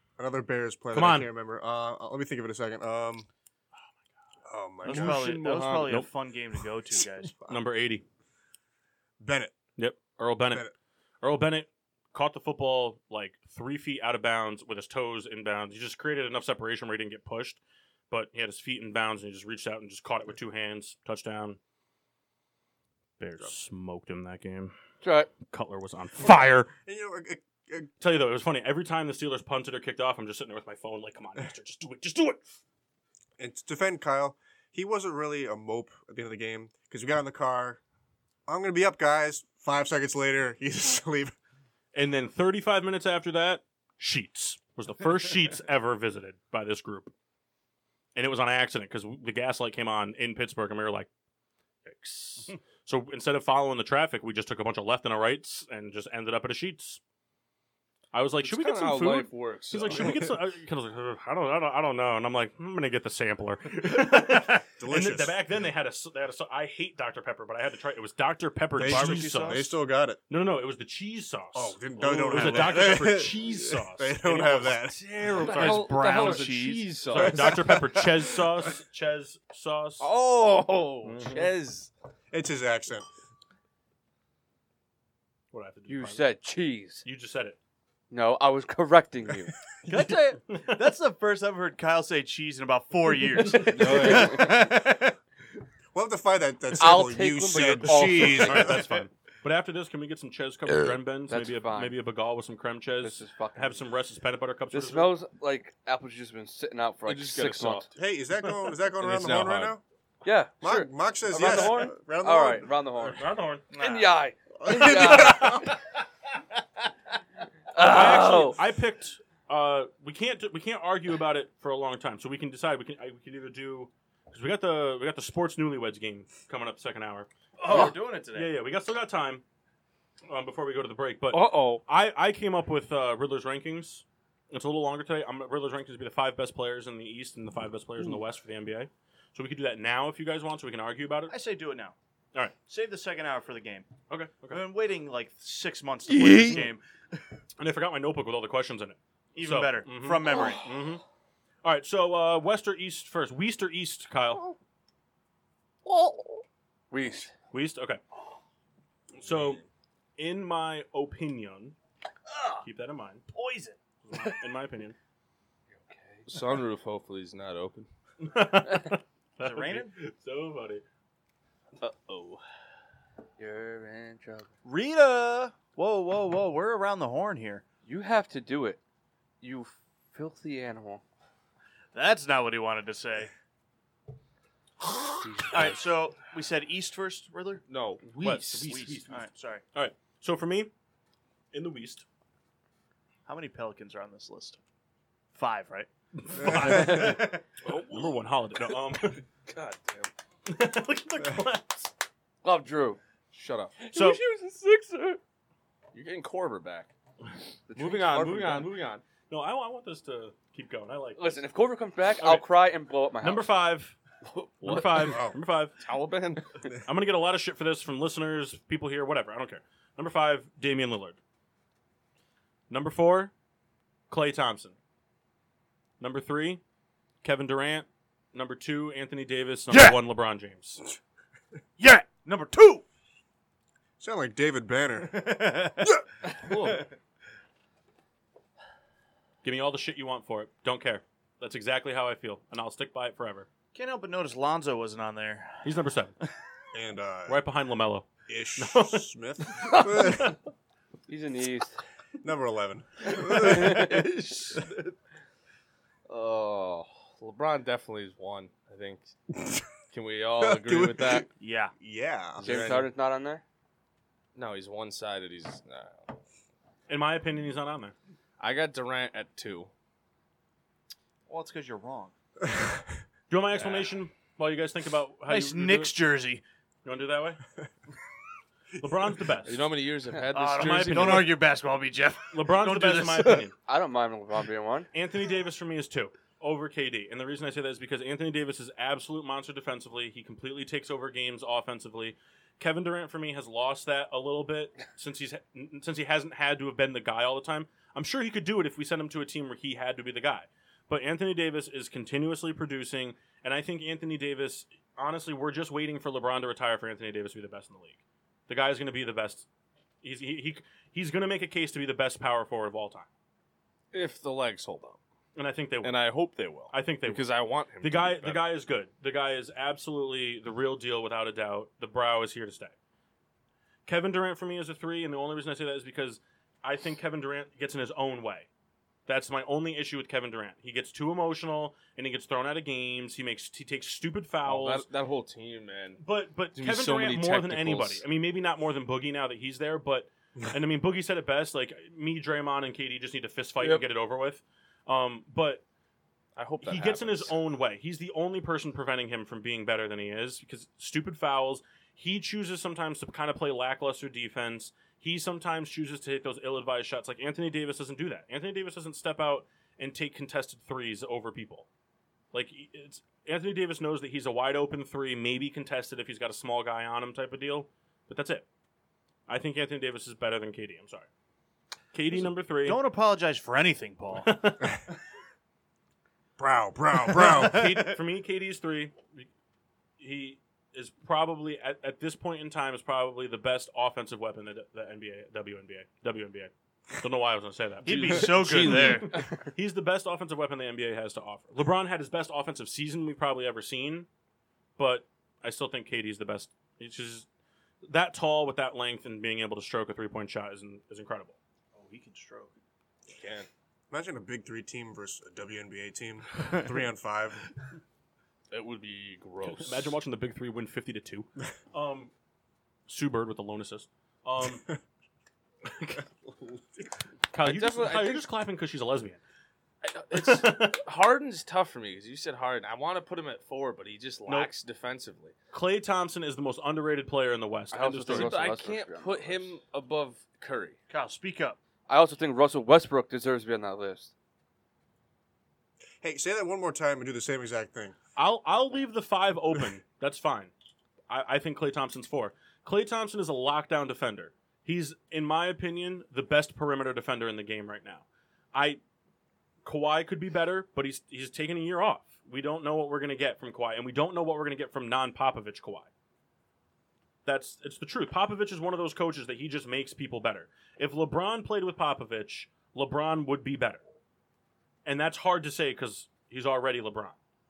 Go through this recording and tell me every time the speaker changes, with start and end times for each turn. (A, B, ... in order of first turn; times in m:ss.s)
0:00.2-0:03.3 A
0:00.9-0:01.3 B
0:04.4-0:05.4 A
0:04.8-0:07.3 C
0:04.9-0:06.0 D
0:07.4-0:08.0 B
0:09.2-0:09.5 A
0:09.8-0:10.7 B
0:11.2-0:21.6 B
0:23.2-0:24.7 B
0:25.0-0:25.3 E
0:25.4-0:26.7 B
0:26.8-0:27.9 A
0:28.0-0:32.6 B
0:33.4-0:37.8 A
0:38.5-0:41.3 A
0:41.9-0:47.1 B
0:48.1-0:51.1 B
0:51.8-0:57.0 B
0:58.1-1:09.7 B
0:58.4-1:00.3 D
1:04.8-1:05.4 A
1:08.8-1:10.2 A
1:08.8-1:09.7 C
1:10.3-1:14.8 B
1:11.5-1:15.0 A
1:12.3-1:12.7 D
1:14.8-1:17.8 D
1:15.3-1:16.4 B
1:15.3-1:17.0 C
1:17.1-1:20.1 B
1:17.3-1:18.1 A
1:20.0-1:21.9 D
1:21.0-1:21.5 B
1:22.3-1:23.1 A
1:25.5-1:26.3 B
1:25.9-1:27.0 E
1:27.0-1:27.6 B
1:28.1-1:29.5 E
1:29.9-1:35.2 C
1:30.0-1:30.9 B
1:33.6-1:34.5 D
1:33.8-1:34.4 E
1:35.9-1:38.9 A
1:36.8-1:38.8 E
1:38.0-1:45.1 B
1:41.3-1:42.0 E
1:43.0-1:43.8 E
1:44.7-1:47.9 E
1:47.0-1:48.0 D
1:48.0-1:49.8 A
1:49.0-1:49.8 D
1:50.2-1:55.7 E
1:50.6-1:53.1 A
1:51.4-1:51.8 B
1:53.0-1:53.6 B
1:53.7-1:54.2 C
1:54.6-1:55.7 A
1:57.7-1:58.6 E
1:57.8-2:09.4 B
2:07.6-2:08.5 C
2:10.3-2:21.3 B
2:11.3-2:11.8 D
2:21.3-2:22.0 C
2:22.6-2:23.9 C
2:24.1-2:24.6 B
2:24.5-2:27.2 C
2:26.1-2:26.6 D
2:27.6-2:31.0 B
2:29.3-2:30.7 C
2:31.6-2:34.4 B
2:35.8-2:36.4 D
2:36.9-2:37.3 E
2:37.5-2:38.0 B
2:39.1-2:39.6 B
2:39.2-2:39.6 D
2:40.2-2:41.8 B
2:42.3-2:42.6 C
2:42.6-2:43.2 B
2:43.3-2:44.4 C
2:44.0-2:45.0 B
2:45.7-2:46.4 E
2:46.3-2:47.9 D
2:48.2-2:50.8 B
2:49.4-2:49.9 C
2:51.8-2:52.4 D
2:53.4-2:54.5 E
2:54.6-2:57.6 C
2:57.8-2:58.8 E
2:59.4-3:01.0 E
3:01.9-3:03.3 C
3:04.8-3:05.6 D
3:05.2-3:05.8 E
3:05.4-3:07.6 C
3:07.7-3:08.8 D
3:08.2-3:10.7 B
3:08.7-3:09.6 C
3:11.5-3:12.0 B
3:13.2-3:14.6 C
3:15.3-3:17.4 C
3:16.3-3:19.2 B
3:17.6-3:18.2 D
3:19.4-3:20.1 D
3:20.4-3:21.9 B
3:22.4-3:23.0 E
3:23.3-3:23.9 D
3:23.8-3:25.2 E
3:23.9-3:24.2 B
3:25.9-3:26.9 D
3:27.7-3:28.7 E
3:27.7-3:29.0 D
3:29.2-3:31.4 B
3:31.2-3:33.5 E
3:32.2-3:32.5 B
3:33.2-3:34.0 B
3:34.3-3:35.2 D
3:34.6-3:35.8 B
3:35.1-3:35.4 A
3:35.8-3:36.6 D
3:36.8-3:41.2 B
3:42.7-3:43.3 B
3:44.1-3:44.8 B
3:46.0-3:46.6 B
3:47.2-3:50.8 B
3:49.7-3:50.0 C
3:51.8-3:52.8 C
3:54.0-3:55.6 A
3:55.0-3:56.0 C
3:56.3-3:56.9 D
3:59.4-4:03.5 B
4:03.7-4:05.7 C
4:05.6-4:06.2 B
4:06.7-4:07.4 A
4:07.3-4:10.3 B
4:08.3-4:10.4 A
4:11.1-4:11.8 E
4:12.2-4:13.9 A
4:13.1-4:14.9 D
4:13.3-4:14.0 E
4:16.1-4:19.1 D
4:19.4-4:19.6 A
4:19.9-4:21.3 D
4:20.4-4:21.3 A
4:21.4-4:21.7 C
4:21.8-4:22.8 A
4:22.4-4:22.9 D
4:22.4-4:23.4 E
4:24.3-4:26.1 D
4:26.9-4:27.9 B
4:28.4-4:29.7 D
4:31.3-4:32.1 C
4:32.4-4:33.0 A
4:33.3-4:35.9 B
4:33.5-4:33.9 D
4:35.3-4:36.4 C
4:36.8-4:37.4 B
4:38.8-4:39.7 B
4:39.4-4:41.3 D
4:40.3-4:43.4 C
4:40.5-4:41.4 B
4:42.3-4:43.5 B
4:43.7-4:44.9 E
4:44.9-5:09.4 B
5:10.0-5:13.1 B
5:13.9-5:15.0 D
5:15.3-5:16.0 B
5:15.8-5:18.4 D
5:16.7-5:17.3 B
5:17.8-5:22.7 B
5:23.9-5:28.5 B
5:29.1-5:34.9 B
5:34.4-5:36.0 D
5:36.0-5:45.6 B
5:36.5-5:38.0 D
5:43.6-5:43.8 D
5:46.4-5:47.3 D
5:46.6-6:01.7 B
6:02.3-6:08.4 B
6:09.3-6:11.1 B
6:11.9-6:12.8 B
6:12.1-6:14.3 C
6:14.2-6:14.8 B
6:16.4-6:17.8 A
6:16.9-6:17.9 C
6:17.3-6:19.3 B
6:20.0-6:34.1 B
6:27.8-6:29.2 D
6:27.8-6:29.2 C
6:34.8-6:37.2 B
6:37.8-6:41.4 B
6:41.7-6:42.6 C
6:43.1-6:43.5 D
6:43.9-6:47.5 A
6:48.5-6:49.9 D
6:49.4-6:52.1 B
6:52.9-6:54.7 B
6:56.2-6:56.8 A
6:57.3-6:59.2 B
6:57.4-6:58.2 D
6:59.8-7:05.3 D
7:00.1-7:00.8 B
7:05.5-7:08.4 B
7:07.7-7:09.5 E
7:08.1-7:10.8 D
7:10.9-7:11.6 C
7:11.9-7:14.1 E
7:16.0-7:18.0 A
7:18.2-7:20.5 B
7:21.1-7:28.8 B
7:29.6-7:35.9 B
7:37.2-7:43.8 B
7:44.8-7:47.2 B